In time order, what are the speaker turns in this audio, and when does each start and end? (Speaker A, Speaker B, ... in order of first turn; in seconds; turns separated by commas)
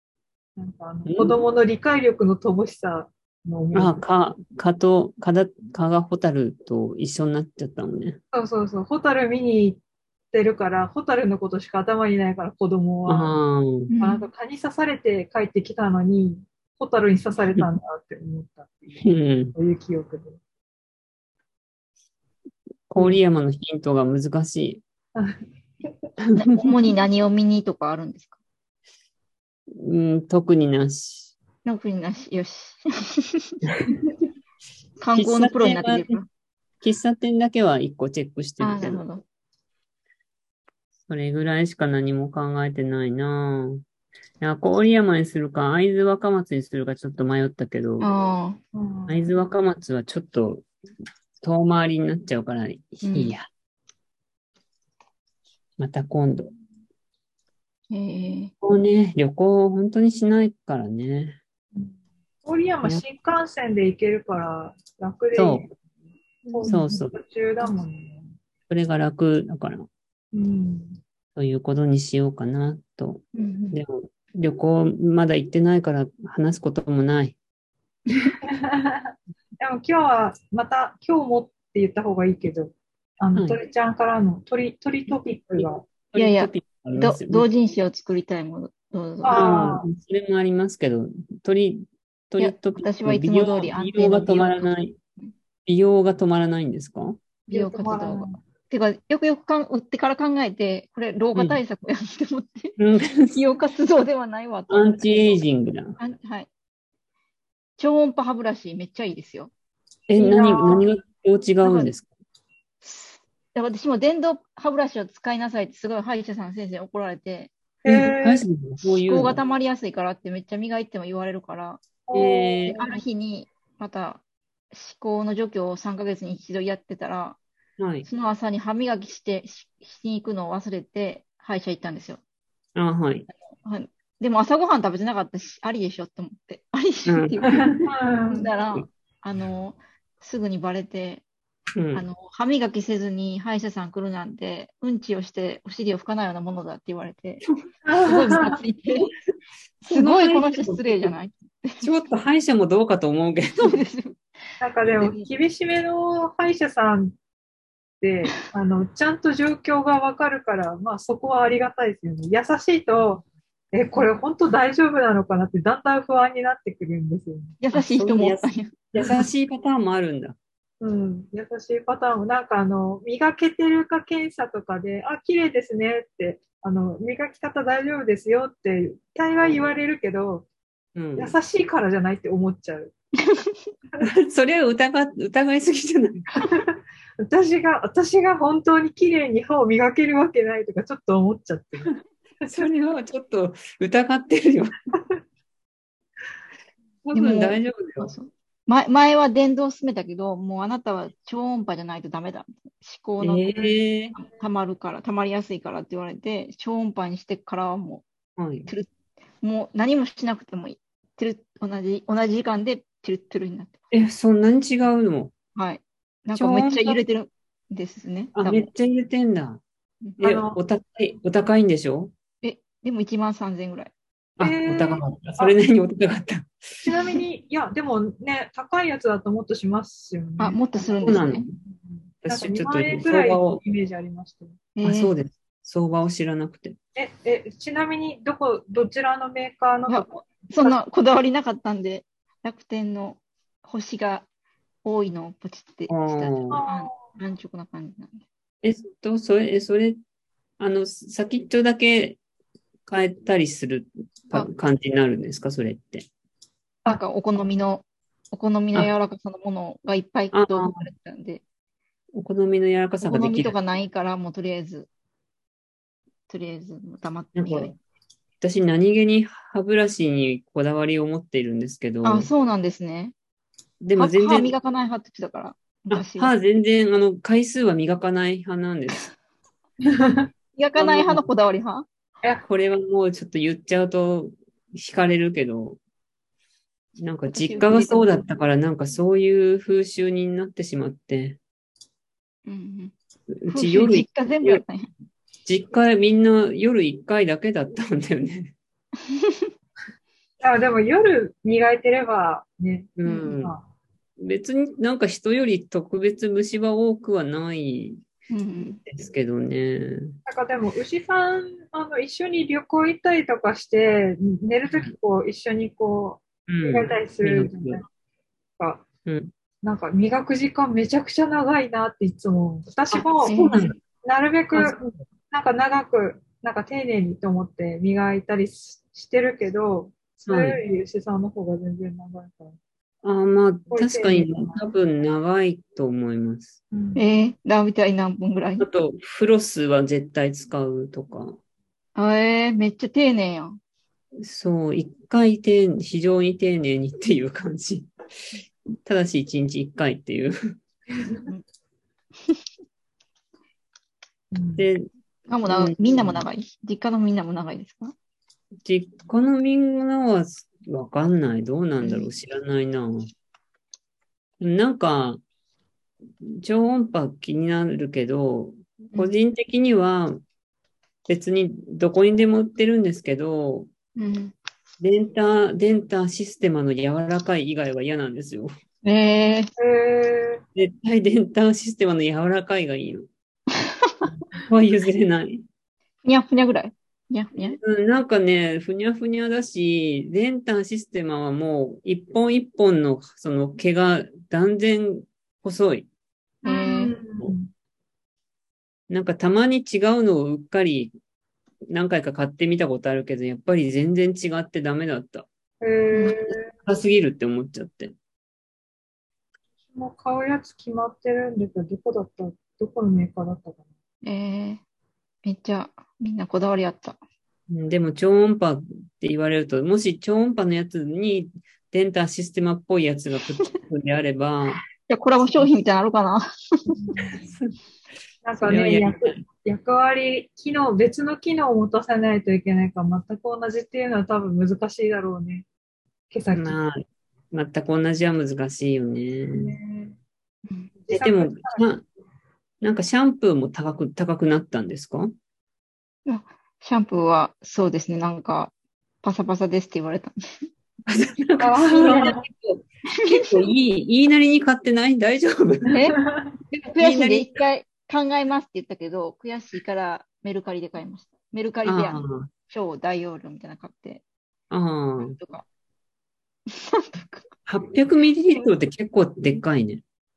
Speaker A: 0.6-4.0, Speaker B: 1.1-1.4, Speaker B: 3.7-8.2, Speaker A: 8.3-9.8, Speaker A: 10.3-13.3, Speaker B: 13.1-13.9, Speaker C: 13.9-14.3, Speaker A: 14.0-20.4, Speaker B: 19.0-19.5, Speaker B: 22.9-24.8, Speaker A: 25.1-26.1, Speaker B: 26.3-26.7, Speaker C: 26.3-28.4, Speaker B: 29.8-31.3, Speaker C: 31.6-33.6, Speaker C: 35.0-36.2, Speaker B: 35.1-36.2, Speaker B: 36.8-39.0, Speaker C: 38.6-39.2, Speaker B: 41.1-43.8, Speaker B: 44.4-48.1, Speaker C: 48.0-48.6, Speaker A: 48.7-49.4, Speaker B: 49.1-50.7, Speaker B: 51.4-53.5, Speaker C: 53.0-53.3, Speaker B: 55.8-56.5, Speaker C: 57.9-58.5, Speaker B: 58.6-61.4, Speaker A: 61.7-65.7, Speaker B: 65.3-65.7, Speaker A: 66.5-68.3, Speaker C: 66.6-67.0, Speaker B: 66.6-67.1, Speaker B: 68.7-69.9, Speaker A: 70.3-71.0, Speaker B: 71.3-77.4, Speaker C: 73.3-73.8, Speaker C: 78.1-78.3, Speaker A: 78.4-85.8, Speaker B: 85.5-87.5, Speaker C: 86.2-89.4, Speaker A: 89.2-89.9, Speaker B: 89.3-95.0, Speaker C: 92.4-94.7, Speaker B: 95.7-97.2, Speaker A: 97.5-98.4, Speaker C: 97.5-102.8, Speaker B: 102.8-103.4, Speaker C: 103.3-105.4, Speaker B: 104.7-106.0, Speaker C: 106.0-106.5, Speaker C: 107.8-109.5, Speaker B: 110.1-112.1, Speaker A: 110.2-110.8, Speaker C: 111.6-111.9, Speaker C: 112.8-117.5, Speaker A: 117.8-118.4, Speaker B: 117.9-119.4, Speaker C: 118.9-121.8, Speaker A: 122.1-123.0, Speaker B: 122.1-122.8, Speaker C: 122.7-124.2, Speaker C: 124.7-127.4, Speaker B: 127.8-128.1, Speaker C: 128.1-132.2, Speaker B: 132.7-133.3, Speaker C: 133.5-137.6, Speaker B: 137.1-137.9, Speaker A: 137.5-138.5, Speaker C: 138.3-141.2, Speaker B: 141.7-142.0, Speaker C: 141.9-147.4, Speaker A: 147.8-148.6, Speaker C: 148.0-149.1, Speaker B: 149.8-151.1, Speaker C: 149.8-151.9, Speaker B: 151.8-153.8, Speaker C: 153.6-154.2, Speaker A: 154.6-157.2, Speaker C: 155.0-155.3, Speaker A: 158.0-167.6, Speaker C: 167.6-168.7, Speaker B: 167.7-170.3, Speaker A: 170.8-180.5, Speaker B: 180.9-181.4, Speaker A: 181.2-182.9, Speaker C: 183.2-183.6, Speaker B: 184.0-186.3, Speaker A: 186.3-192.6, Speaker B: 192.5-194.7, Speaker B: 197.0-198.1, Speaker C: 197.1-208.0, Speaker B: 203.2-204.2, Speaker B: 208.4-208.7, Speaker C: 209.4-213.8, Speaker B: 213.9-215.3, Speaker C: 215.5-218.7, Speaker B: 216.3-217.0, Speaker B: 218.3-219.6, Speaker B: 220.2-222.1, Speaker A: 220.2-220.6, Speaker C: 222.4-223.9, Speaker B: 224.4-226.5, Speaker A: 224.4-225.6, Speaker A: 226.8-234.6, Speaker C: 230.4-231.5, Speaker B: 231.0-231.5, Speaker B: 232.2-233.6, Speaker C: 234.8-235.1, Speaker B: 234.8-236.8, Speaker A: 236.9-240.8, Speaker C: 239.9-244.2, Speaker C: 244.8-248.2, Speaker B: 245.9-246.6, Speaker A: 246.5-247.0, Speaker B: 248.6-250.0, Speaker B: 250.6-252.2, Speaker B: 252.8-256.1, Speaker C: 256.9-261.4, Speaker B: 260.3-260.9, Speaker B: 262.1-263.5, Speaker C: 263.0-264.9, Speaker C: 266.3-267.7, Speaker B: 267.3-267.7, Speaker B: 268.4-272.3, Speaker C: 272.0-273.1, Speaker B: 273.8-274.5, Speaker C: 273.9-276.3, Speaker B: 275.9-279.1, Speaker A: 279.8-280.3, Speaker C: 280.6-281.9, Speaker B: 280.8-281.2, Speaker B: 282.5-285.8, Speaker B: 287.0-291.4, Speaker C: 287.3-288.2, Speaker C: 292.4-292.9, Speaker B: 293.3-294.6, Speaker C: 293.5-294.9, Speaker B: 295.4-298.5, Speaker C: 299.1-299.5, Speaker A: 300.4-303.6, Speaker B: 303.0-303.5, Speaker B: 304.2-308.0, Speaker C: 308.3-308.8, Speaker B: 308.8-310.1, Speaker A: 310.2-317.8, Speaker B: 316.5-317.8, Speaker A: 318.6-318.8, Speaker B: 319.1-319.3, Speaker A: 319.6-323.4, Speaker B: 322.9-323.8, Speaker C: 323.2-323.7, Speaker A: 324.0-324.8, Speaker B: 324.5-325.0, Speaker A: 325.3-332.6, Speaker B: 330.2-330.6, Speaker B: 333.0-336.6, Speaker A: 333.7-334.7, Speaker A: 336.7-337.1, Speaker C: 336.9-338.6, Speaker B: 338.6-341.4, Speaker C: 341.9-343.6, Speaker B: 344.2-347.9, Speaker B: 348.8-350.4, Speaker A: 350.9-351.2, Speaker A: 354.3-354.7, Speaker B: 354.6-354.9, Speaker C: 355.3-357.9, Speaker B: 355.5-356.2, Speaker B: 358.6-363.1, Speaker C: 361.8-362.1, Speaker B: 364.4-365.2, Speaker B: 366.2-370.2, Speaker B: 371.1-373.7, Speaker C: 373.9-374.3, Speaker B: 374.8-378.5, Speaker C: 378.8-379.5, Speaker A: 379.6-380.4, Speaker B: 380.5-383.1, Speaker C: 383.7-383.9, Speaker B: 384.4-385.4, Speaker C: 386.0-387.6, Speaker B: 387.5-395.9, Speaker C: 396.4-396.9, Speaker A: 396.4-397.5, Speaker B: 398.9-400.9, Speaker B: 401.7-405.3, Speaker A: 405.6-406.5, Speaker C: 405.9-406.2, Speaker B: 406.3-407.9, Speaker A: 409.7-413.6, Speaker C: 414.0-414.6, Speaker C: 415.2-417.0, Speaker B: 417.5-424.6, Speaker C: 424.9-426.8, Speaker A: 426.7-427.2, Speaker B: 427.2-427.5, Speaker A: 428.2-435.4, Speaker B: 428.4-429.2, Speaker A: 436.1-436.6, Speaker B: 436.3-439.6, Speaker A: 439.3-440.0, Speaker A: 440.8-441.7, Speaker B: 440.9-441.8, Speaker B: 442.6-445.1, Speaker C: 446.1-450.5, Speaker B: 450.9-455.8, Speaker A: 451.4-452.2, Speaker C: 453.0-453.3, Speaker C: 455.7-456.0, Speaker A: 455.7-456.3, Speaker C: 456.5-464.0, Speaker B: 456.8-457.4, Speaker B: 461.6-462.3, Speaker B: 464.5-465.2, Speaker C: 465.0-465.4, Speaker C: 466.5-467.3, Speaker B: 467.5-469.8